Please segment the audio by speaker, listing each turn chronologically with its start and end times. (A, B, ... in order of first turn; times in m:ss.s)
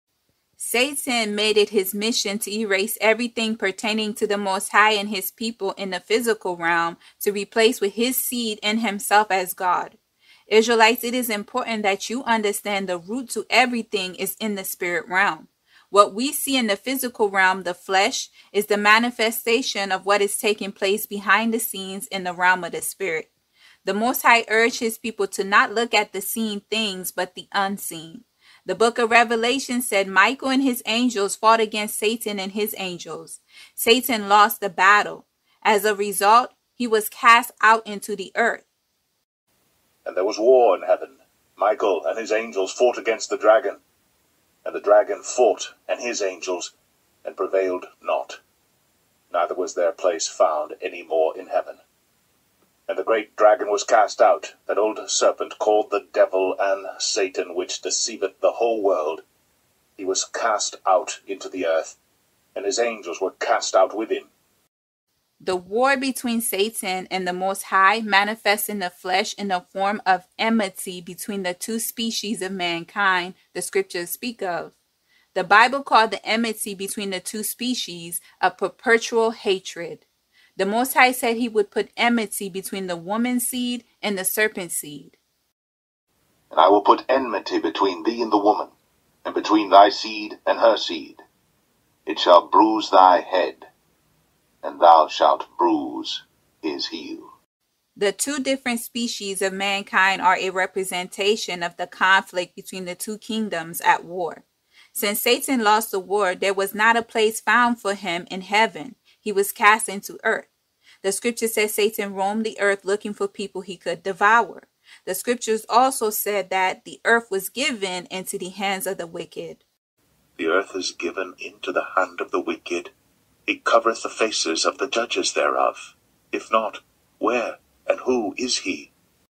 0:00.6-0:10.0 A
0:10.5-0:23.3 A
0:23.8-0:38.7 A
0:40.0-0:43.8 B
0:44.6-0:46.7 B
0:47.2-0:48.4 B
0:49.3-0:51.8 B
0:52.9-0:59.2 B
1:00.0-1:02.0 B
1:02.5-1:04.3 B
1:05.4-1:14.7 A
1:15.3-1:20.0 A
1:20.6-1:25.2 A
1:26.5-1:28.7 B
1:29.2-1:31.2 B
1:32.0-1:33.7 B
1:34.6-1:37.3 B
1:38.0-1:50.5 A
1:51.0-1:59.6 A
2:00.4-2:02.9 B
2:03.4-2:08.9 B